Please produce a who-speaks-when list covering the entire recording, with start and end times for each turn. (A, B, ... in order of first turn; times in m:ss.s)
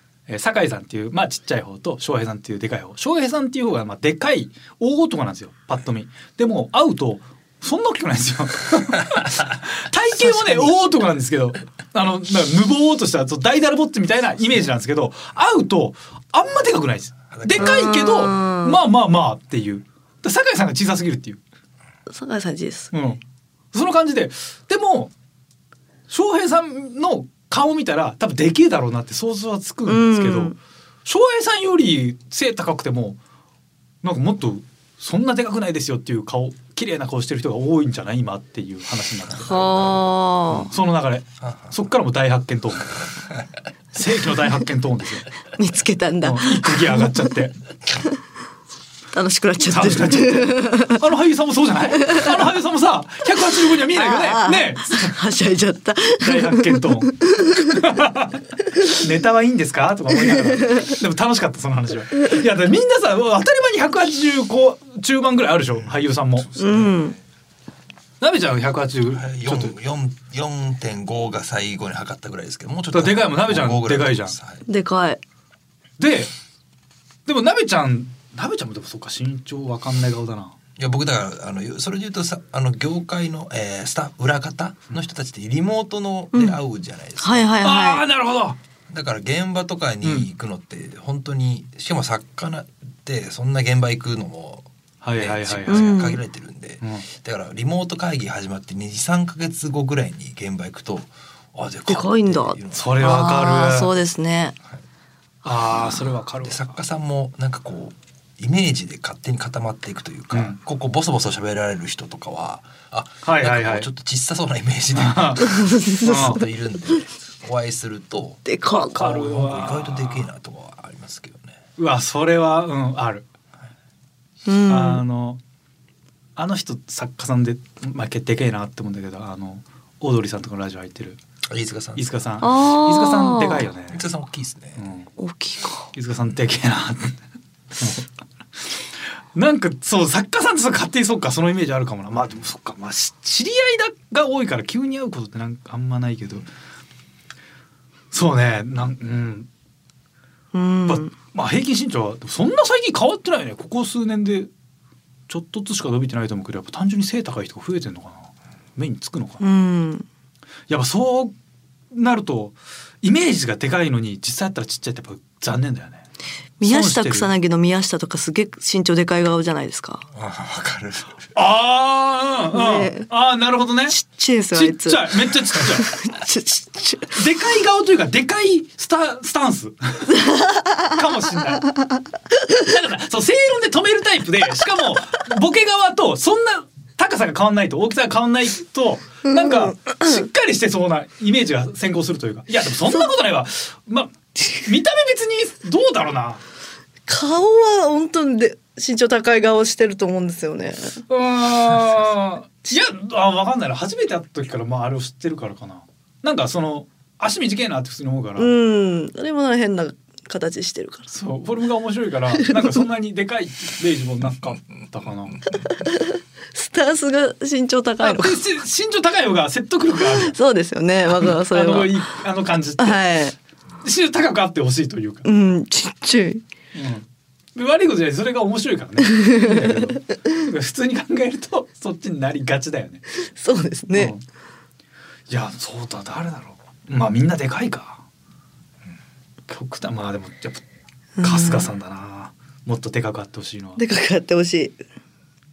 0:00.3-0:21.4 A
0:10.2-0:10.7 B
0:17.3-0:17.9 C
0:17.6-0:18.8 B
0:22.1-0:22.9 B
0:22.9-0:23.2 A
0:23.7-0:25.1 A
0:26.1-0:33.2 A
0:29.9-0:30.6 B
0:34.0-0:39.9 A
0:39.4-0:40.7 B
0:39.5-0:40.0 C
0:40.5-0:43.0 A
0:41.4-0:41.8 C
0:43.9-0:45.3 A
0:45.6-0:47.3 B
0:46.2-0:47.5 A
0:49.1-0:51.0 B
0:49.6-0:55.2 A
0:52.0-0:52.3 B
0:53.7-0:57.8 B
0:56.2-1:06.5 A
1:00.3-1:01.0 B
1:05.8-1:07.2 C
1:06.6-1:07.2 B
1:08.2-1:09.7 A
1:09.1-1:14.6 C
1:12.9-1:14.4 A
1:14.7-1:15.2 B
1:16.0-1:16.3 A
1:17.3-1:20.6 A
1:20.8-1:27.6 C
1:26.3-1:26.6 B
1:27.2-1:28.0 B
1:27.6-1:28.6 A
1:28.9-1:43.0 C
1:35.0-1:36.0 A
1:35.7-1:36.2 B
1:41.9-1:44.6 B
1:42.7-1:43.9 A
1:45.4-1:46.7 A
1:46.4-2:01.6 C
1:53.2-1:53.9 A
1:55.0-1:55.5 A
1:55.4-1:56.4 B
1:56.0-1:56.4 A
1:58.5-1:59.1 B
1:58.7-2:00.3 A
2:01.8-2:03.2 A
2:04.5-2:05.0 B
2:04.7-2:05.4 A
2:06.4-2:11.2 A
2:11.5-2:12.0 C
2:12.0-2:14.0 A
2:12.4-2:13.6 B
2:13.9-2:14.9 C
2:14.8-2:15.1 A
2:15.2-2:15.9 B
2:15.9-2:17.2 A
2:17.8-2:26.5 A
2:28.1-2:29.5 A
2:30.5-2:31.1 B
2:30.9-2:34.5 A
2:35.3-2:39.4 A
2:39.4-2:40.1 B
2:40.7-2:41.3 A
2:41.9-2:46.0 A
2:46.6-2:50.0 B
2:46.6-2:47.3 A
2:50.1-2:51.3 C
2:51.3-2:54.0 A
2:52.5-2:53.1 B
2:53.9-2:57.2 B
2:54.5-2:55.9 A
2:57.1-3:00.3 A
3:00.1-3:01.0 B
3:00.8-3:01.7 A
3:02.5-3:16.4 A
3:09.2-3:10.1 B
3:17.1-3:21.0 B
3:21.1-3:28.5 A
3:28.4-3:31.1 B
3:31.1-3:35.4 A
3:32.4-3:32.8 B
3:35.5-3:38.4 B
3:38.0-3:40.4 A
3:40.0-3:42.0 B
3:41.1-3:43.0 A
3:42.8-3:43.4 B
3:43.8-3:45.3 A
3:45.2-3:46.4 B
3:46.7-3:53.0 A
3:49.0-3:50.3 B
3:53.2-3:54.1 B
3:53.9-3:54.2 A
3:55.3-3:58.0 A
3:59.5-4:00.6 A
4:01.2-4:01.7 B
4:01.2-4:03.8 A
4:03.8-4:04.8 B